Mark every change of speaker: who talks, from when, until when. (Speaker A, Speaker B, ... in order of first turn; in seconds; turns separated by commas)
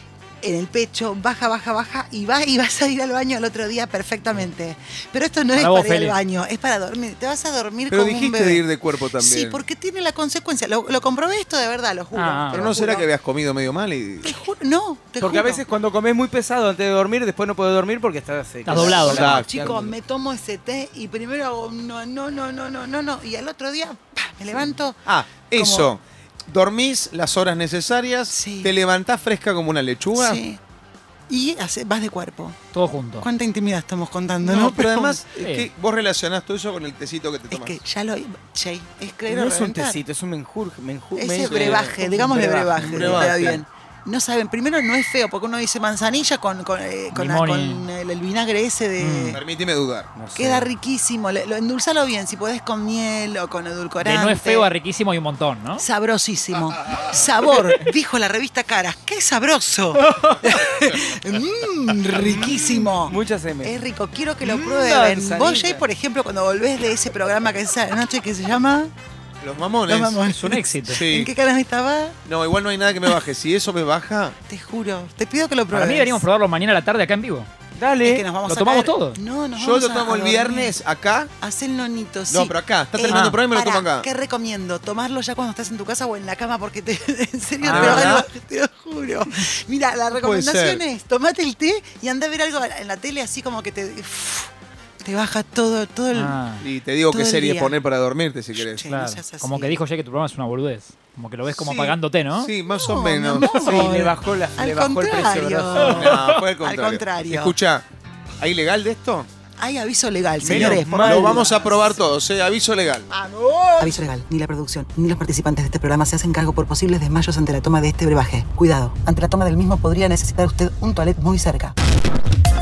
Speaker A: 0.4-8.7, Speaker B: 5.5-6.2, Speaker C: 7.9-9.6, Speaker A: 9.2-13.1, Speaker B: 12.1-12.7, Speaker C: 12.5-14.4, Speaker A: 14.2-15.6, Speaker D: 15.2-19.9, Speaker B: 18.6-19.2, Speaker A: 18.7-25.9, Speaker C: 18.8-19.8, Speaker C: 25.1-30.4, Speaker A: 28.3-28.7, Speaker A: 30.1-30.6, Speaker A: 31.3-32.6, Speaker B: 32.7-33.2, Speaker A: 33.2-35.2, Speaker C: 34.4-37.8, Speaker B: 35.4-35.7, Speaker A: 37.5-40.0, Speaker D: 39.3-43.6, Speaker A: 41.1-49.4, Speaker C: 41.5-41.8, Speaker C: 42.8-43.5, Speaker B: 47.1-47.9, Speaker B: 49.0-49.4, Speaker C: 49.3-50.1, Speaker D: 50.1-50.7, Speaker A: 50.3-54.7, Speaker B: 54.0-55.8, Speaker A: 55.8-68.9, Speaker D: 60.0-60.5, Speaker D: 62.1-63.7, Speaker D: 64.4-65.8, Speaker C: 69.4-70.2, Speaker A: 69.8-72.2, Speaker B: 70.3-71.0, Speaker C: 70.9-71.3, Speaker C: 72.2-74.3, Speaker A: 74.5-76.2, Speaker B: 75.7-77.5, Speaker D: 77.8-78.4, Speaker A: 78.0-80.8, Speaker B: 78.4-79.2, Speaker C: 79.5-81.3, Speaker A: 81.4-94.5, Speaker C: 82.3-84.1, Speaker B: 87.6-88.1, Speaker C: 87.7-88.2, Speaker D: 87.8-88.2, Speaker C: 90.1-90.8, Speaker A: 95.0-96.3, Speaker B: 96.1-96.6, Speaker C: 96.6-98.8, Speaker A: 97.1-97.8, Speaker A: 98.5-99.8, Speaker B: 98.8-102.5, Speaker C: 101.5-103.8, Speaker A: 102.7-107.5, Speaker D: 103.5-106.3, Speaker C: 105.8-107.8, Speaker C: 108.4-109.3, Speaker A: 109.6-112.0, Speaker D: 110.4-111.5, Speaker C: 110.4-113.1, Speaker A: 113.1-121.7, Speaker D: 113.5-113.9